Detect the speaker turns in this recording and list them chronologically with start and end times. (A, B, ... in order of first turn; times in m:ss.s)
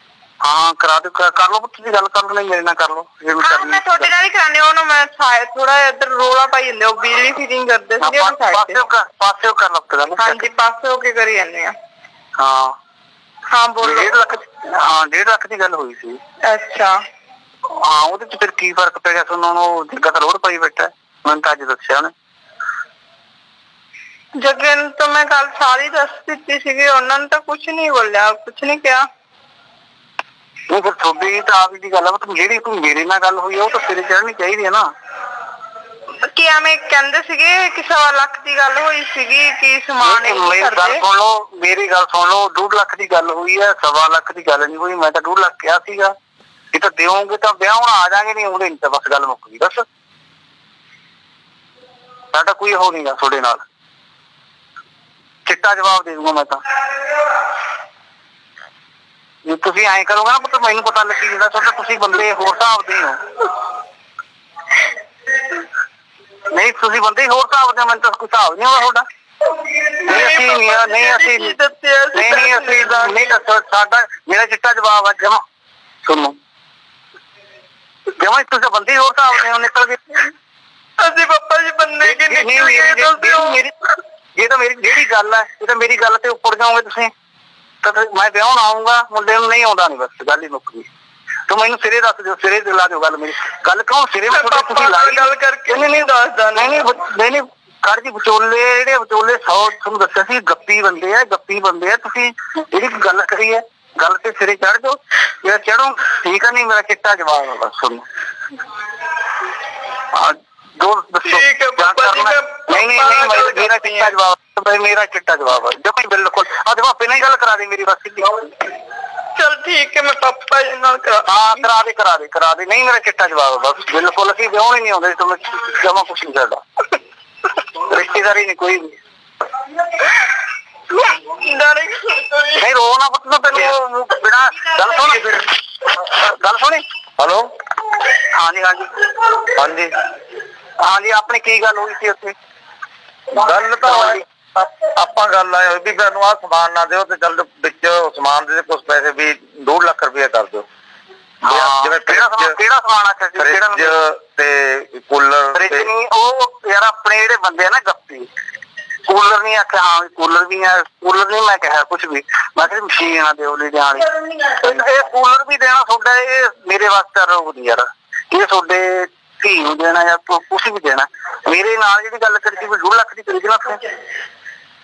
0:00.4-0:04.1 A
0:03.4-0:08.8 B
0:08.0-0:10.4 A
0:10.2-0:11.7 B
0:12.4-0:12.7 A
0:13.5-0:14.1 B
0:13.8-0:16.2 A
0:16.4-0:16.9 B
0:17.7-0:22.1 A
0:24.4-0:29.0 B
0:30.7-0:34.8 A
0:36.2-0:41.0 B
0:40.0-0:46.1 A
0:46.7-0:49.8 A
0:52.3-0:53.6 A
0:55.4-0:56.6 A
0:59.4-1:03.2 A
1:06.5-1:09.0 A
1:10.0-1:11.6 A
1:10.0-1:13.3 B
1:12.1-1:15.4 A
1:16.0-1:16.3 A
1:18.1-1:20.3 A
1:21.0-1:23.6 B
1:22.0-1:23.7 A
1:24.3-1:27.1 A
1:27.8-1:30.9 A
1:31.5-1:35.9 A
1:34.3-1:36.8 B
1:36.5-1:48.0 A
1:50.1-1:58.5 A
1:51.2-1:54.1 B
1:59.4-2:01.4 B
2:01.2-2:06.6 A
2:07.7-2:09.0 A
2:10.9-2:12.6 B
2:12.6-2:16.8 A
2:17.2-2:17.5 C
2:18.1-2:18.9 A
2:19.5-2:19.9 C
2:20.8-2:22.3 A
2:23.3-2:30.6 C
2:23.8-2:24.2 A
2:31.4-2:34.0 A
2:31.4-2:32.6 C
2:33.4-2:35.9 C
2:35.5-2:38.3 A
2:39.0-2:53.8 A